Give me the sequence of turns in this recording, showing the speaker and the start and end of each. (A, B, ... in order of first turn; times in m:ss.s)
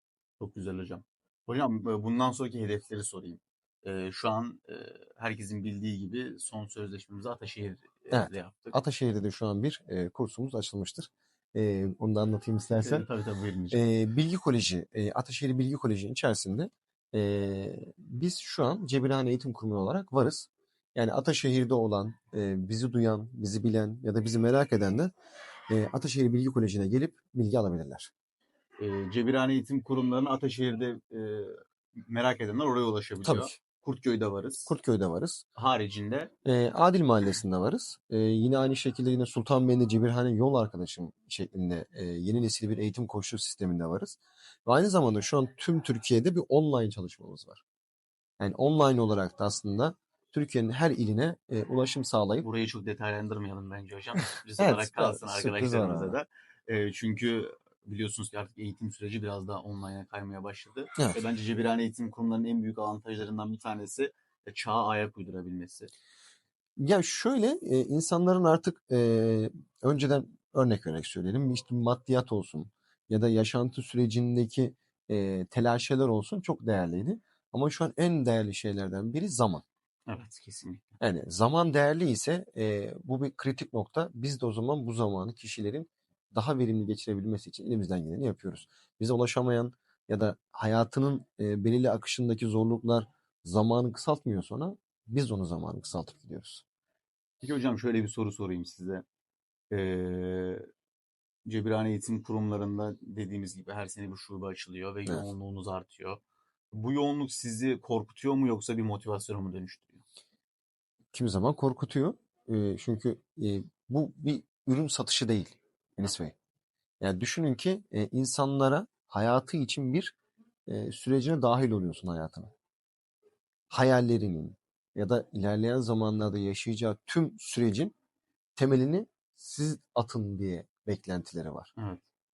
0:00.4-0:08.8 A
0:08.1-0:13.1 B
0:12.7-0:13.9 A
0:13.7-0:25.1 B
0:25.7-0:28.1 B
0:28.8-0:34.7 A
0:33.2-0:33.6 B
0:34.7-0:35.4 B
0:35.6-0:36.3 A
0:36.4-0:47.6 B
0:48.4-0:52.5 B
0:52.4-1:05.9 A
0:54.6-0:56.2 B
1:06.8-1:19.6 B
1:20.1-1:20.8 A
1:21.0-1:36.6 B
1:37.4-1:39.0 A
1:39.7-1:40.7 A
1:41.5-1:46.2 A
1:46.7-1:50.0 A
1:51.1-1:56.4 B
1:57.0-2:00.2 B
2:00.7-2:02.5 B
2:03.7-2:07.9 B
2:08.6-2:11.7 B
2:11.8-2:12.0 A